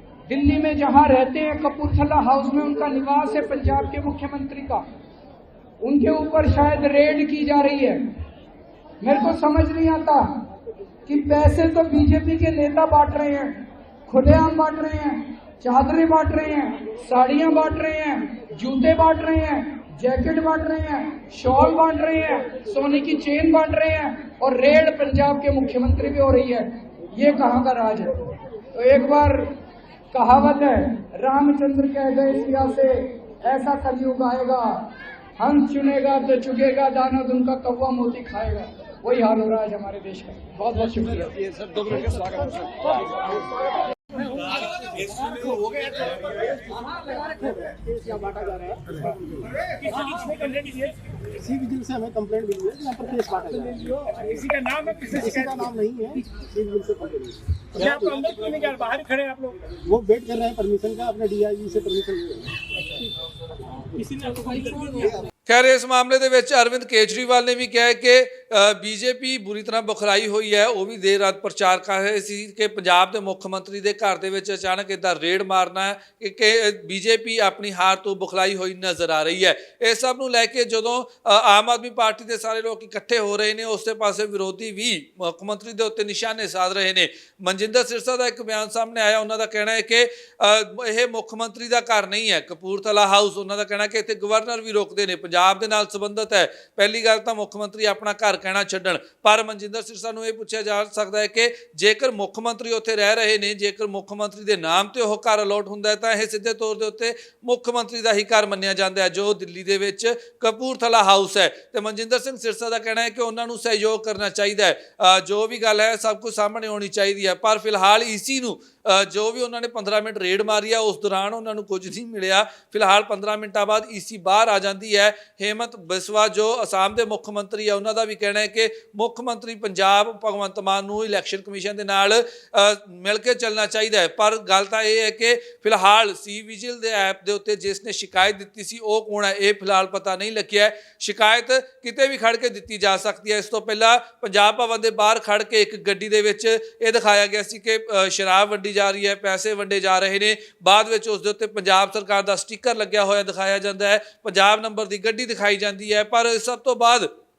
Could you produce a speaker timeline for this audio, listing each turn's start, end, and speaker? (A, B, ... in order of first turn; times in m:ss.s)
0:00.3-0:04.8 A
0:05.8-0:08.0 A
0:09.0-0:10.3 A
0:11.1-0:29.5 A
0:30.1-0:41.5 A
0:41.7-0:43.2 B
0:45.0-0:49.5 B
0:49.8-0:50.9 C
0:51.4-0:54.2 B
0:54.2-0:55.2 C
0:55.1-0:58.2 B
0:57.8-0:59.6 C
0:59.8-1:02.6 B
1:04.1-1:05.1 B
1:04.3-1:04.9 C
1:05.5-2:37.1 D